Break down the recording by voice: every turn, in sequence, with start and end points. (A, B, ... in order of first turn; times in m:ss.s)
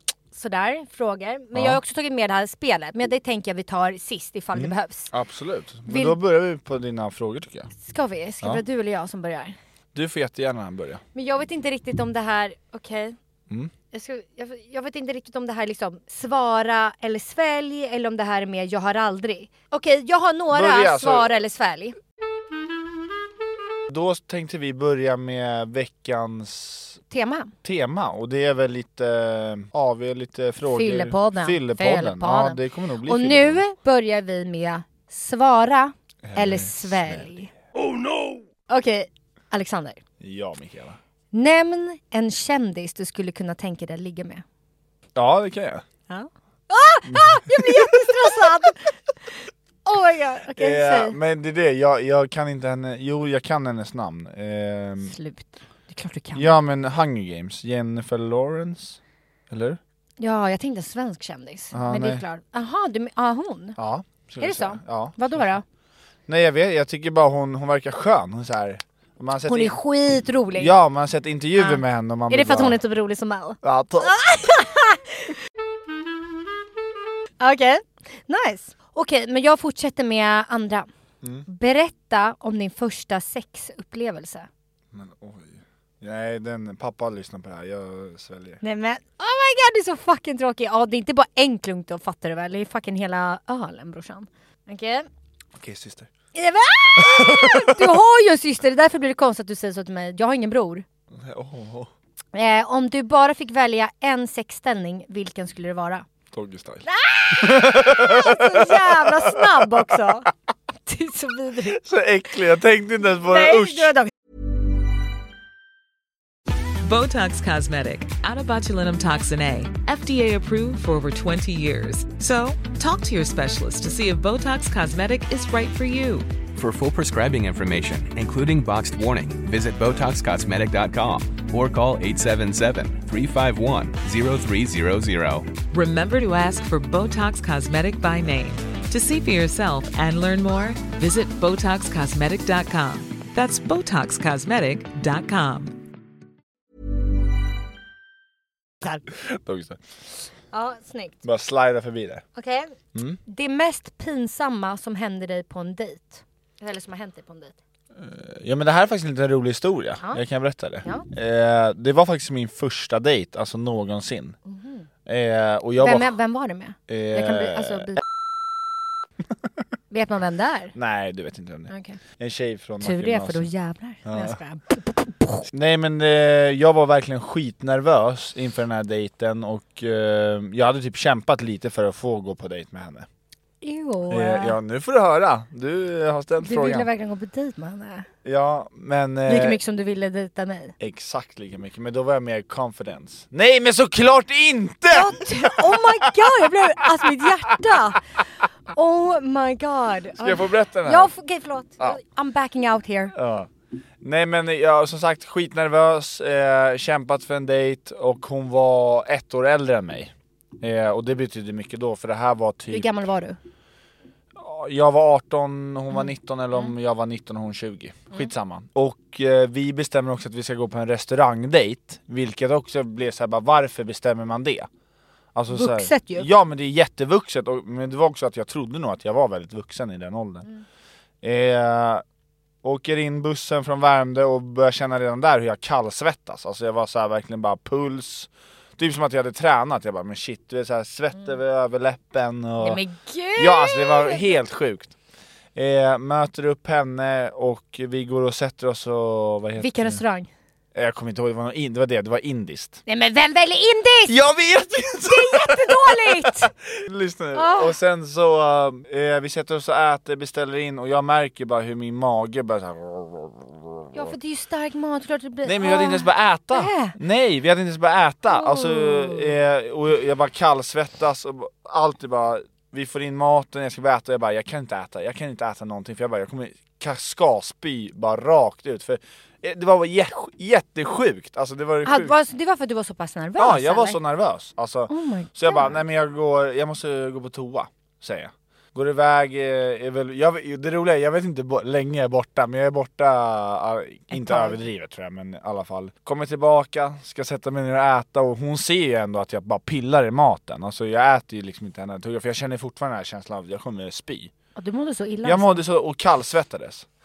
0:00.3-0:05.1 A
0:01.5-0:01.8 B
0:04.5-0:07.7 B
0:05.9-0:06.2 A
0:07.8-0:09.6 A
0:09.9-0:11.0 B
0:11.1-0:13.2 A
0:13.9-0:22.0 A
0:20.5-0:21.3 B
0:23.9-0:27.0 B
0:27.1-0:27.5 A
0:27.6-0:33.6 B
0:30.7-0:37.5 A
0:36.2-0:38.4 B
0:38.7-0:40.0 A
0:40.2-0:41.0 B
0:41.3-0:44.4 A
0:45.1-0:45.8 B
0:46.1-0:48.9 A
0:47.1-0:48.1 B
0:49.8-0:51.2 A
0:50.6-0:55.1 B
0:55.0-0:56.5 A
0:56.3-0:59.0 B
0:59.5-0:59.8 B
1:00.2-1:03.8 A
1:01.7-1:02.2 B
1:03.8-1:05.4 B
1:04.4-1:05.6 A
1:06.3-1:09.8 B
1:09.5-1:10.7 A
1:10.5-1:12.8 B
1:11.6-1:15.3 A
1:13.6-1:14.2 B
1:17.4-1:20.9 A
1:21.2-1:21.5 B
1:21.4-1:24.5 A
1:24.9-1:28.6 B
1:28.6-1:35.1 A
1:35.6-1:36.1 B
1:36.3-1:40.8 A
1:37.0-1:37.9 B
1:41.1-1:41.9 B
1:42.3-1:46.0 A
1:46.3-1:50.0 B
1:46.8-1:50.3 A
1:50.8-1:51.8 A
1:51.6-1:53.9 B
1:53.2-1:54.1 A
1:56.8-2:06.3 C
2:06.5-2:15.6 D
2:15.7-2:25.8 C
2:29.1-2:29.8 B
2:30.5-2:31.2 A
2:31.2-2:32.2 B
2:32.4-2:32.7 A
2:32.9-2:33.2 B
2:33.2-2:37.6 A
2:38.0-2:44.4 B
2:44.4-2:44.9 A
2:45.0-2:46.2 B
2:45.8-2:48.0 A
2:46.9-2:47.9 B
2:49.9-2:50.7 A
2:50.7-2:53.5 B
2:51.7-2:52.0 A
2:52.8-2:55.5 A
2:54.0-2:54.4 B
2:55.5-3:03.1 B
3:03.6-3:04.6 A
3:04.1-3:06.9 B
3:06.4-3:08.1 A
3:08.2-3:09.6 B
3:09.3-3:10.7 A
3:10.8-3:17.8 B
3:14.9-3:18.0 A
3:18.7-3:23.1 A
3:20.2-3:21.1 B
3:23.1-3:23.5 B
3:24.0-3:32.9 B
3:32.7-3:33.4 A
3:34.4-3:44.7 B
3:45.3-3:50.5 B
3:45.5-3:46.3 A
3:51.2-3:52.0 B
3:52.6-4:02.8 B
4:02.6-4:04.4 A
4:03.4-4:04.9 B
4:05.5-4:10.0 B
4:09.6-4:10.3 A
4:10.7-4:12.8 B
4:12.8-4:14.2 A
4:14.1-4:24.1 B
4:15.0-4:16.5 A
4:17.3-4:17.7 A
4:23.9-4:27.0 A
4:25.4-4:42.1 B
4:28.3-4:29.4 A
4:41.8-4:44.0 A
4:43.4-5:04.3 B
4:44.9-4:45.8 A
4:54.1-4:54.6 A
5:04.6-5:05.6 A
5:05.2-5:06.8 B